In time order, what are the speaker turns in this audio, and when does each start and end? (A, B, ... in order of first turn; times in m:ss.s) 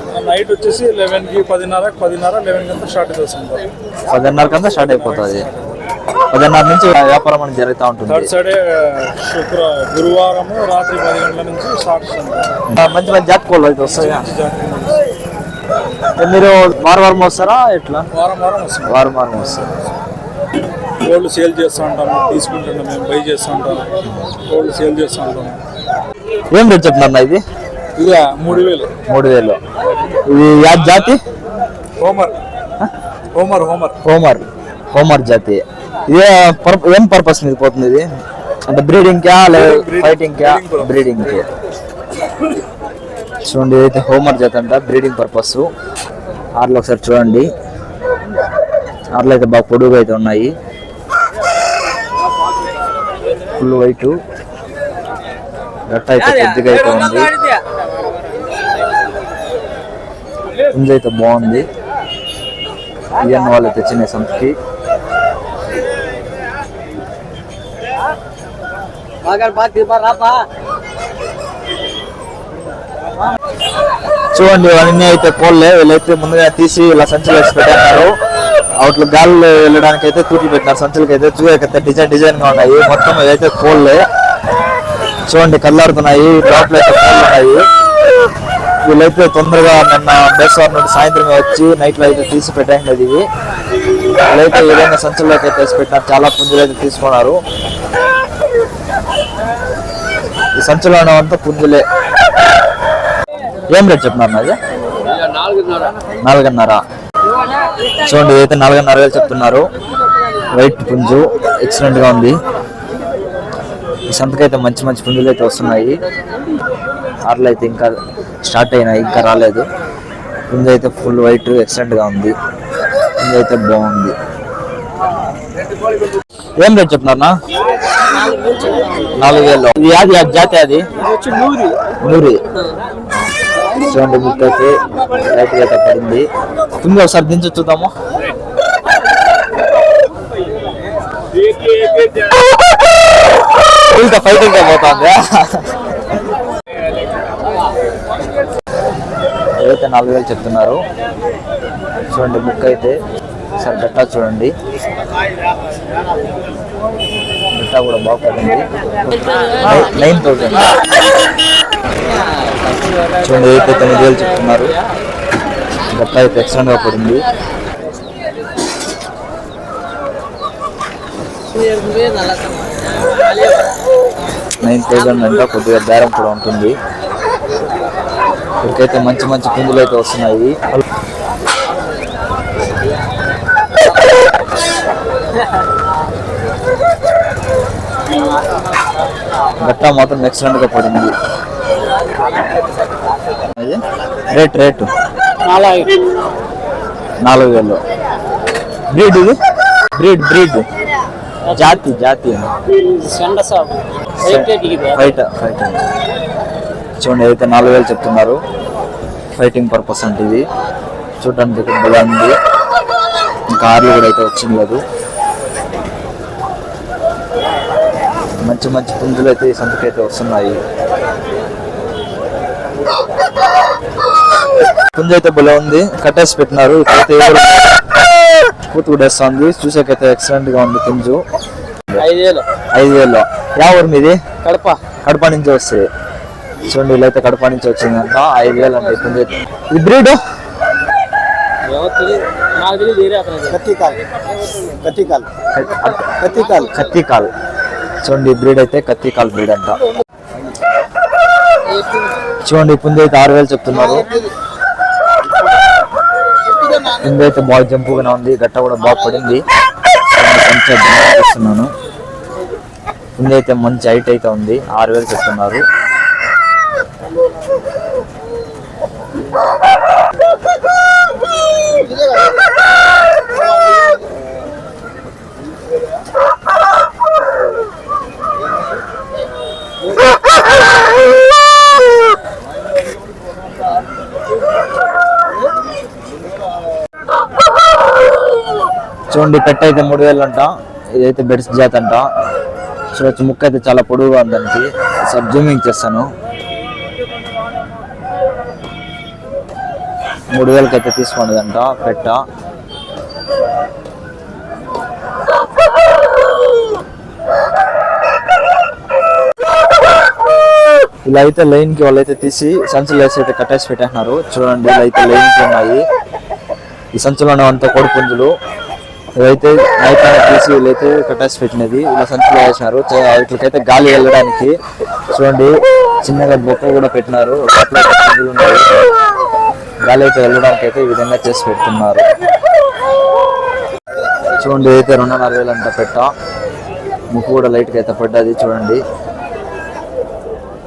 0:00.1-0:03.6 A
0:04.1-0:05.5 B
0:04.3-0:05.8 A
0:06.3-0:08.3 B
0:08.1-0:12.5 A
0:12.7-0:14.3 B
0:13.8-0:15.0 A
0:16.2-0:18.1 B
0:18.1-0:19.0 A
0:18.9-0:19.7 B
0:21.0-0:23.9 A
0:24.5-0:25.6 A
0:26.5-0:27.4 B
0:28.0-0:28.9 A
0:28.5-0:29.6 B
0:30.3-0:31.2 B
0:32.0-0:32.3 A
0:33.3-0:34.0 A
0:34.0-0:38.1 B
0:38.7-0:41.5 B
0:39.5-0:41.0 A
0:43.4-0:45.7 B
0:46.6-0:47.5 B
0:49.2-0:50.5 B
0:53.6-0:54.2 B
0:55.9-0:57.3 B
0:56.4-0:57.6 C
1:00.7-1:01.7 B
1:03.2-1:04.6 B
1:09.2-1:10.5 C
1:14.3-1:18.2 B
1:18.8-1:24.0 B
1:25.3-1:27.6 B
1:28.9-1:33.2 B
1:34.3-1:37.4 B
1:40.6-1:41.8 B
1:43.7-1:44.6 B
1:45.4-1:45.9 C
1:46.2-1:46.8 B
1:48.0-1:49.7 B
1:50.5-1:52.4 B
1:54.1-1:56.0 B
1:57.3-1:59.7 B
2:00.5-2:02.3 B
2:03.2-2:04.2 B
2:06.6-2:07.3 B
2:09.1-2:10.8 B
2:11.0-2:11.8 C
2:12.0-2:12.4 B
2:13.8-2:16.3 B
2:16.8-2:17.9 B
2:23.9-2:25.7 B
2:29.6-2:30.8 B
2:32.1-2:33.0 B
2:33.6-2:34.5 B
2:37.5-2:40.7 B
2:43.2-2:44.8 B
2:45.9-2:47.3 B
2:51.6-2:52.6 C
2:54.6-2:56.8 B
2:58.6-3:00.6 B
3:09.6-3:11.1 B
3:14.3-3:14.9 B
3:15.5-3:15.9 C
3:17.2-3:17.8 B
3:18.9-3:19.4 B
3:20.0-3:20.7 B
3:21.5-3:22.5 B
3:22.8-3:23.7 C
3:24.2-3:25.8 B
3:24.5-3:25.0 C
3:27.0-3:28.4 B
3:29.4-3:30.5 B
3:31.2-3:32.3 B
3:33.5-3:34.8 B
3:38.4-3:40.6 B
3:45.0-3:47.7 B
3:48.7-3:51.2 B
3:52.0-3:52.4 C
3:52.8-3:54.2 B
3:54.4-3:54.8 C
3:55.0-3:55.9 B
3:56.7-4:00.2 B
4:01.7-4:04.0 C
4:04.7-4:05.3 C
4:05.5-4:07.3 B
4:08.0-4:09.8 B
4:12.4-4:14.2 B
4:17.0-4:19.4 B
4:20.1-4:21.7 B
4:23.2-4:25.6 B
4:49.1-4:52.0 B
4:53.0-4:56.1 B
5:00.3-5:02.2 B
5:11.0-5:15.8 B
5:17.0-5:18.3 B
5:19.2-5:24.5 B
5:25.1-5:25.5 B
5:26.0-5:28.6 B
5:29.8-5:32.0 B
5:34.4-5:36.1 B
5:37.1-5:38.8 B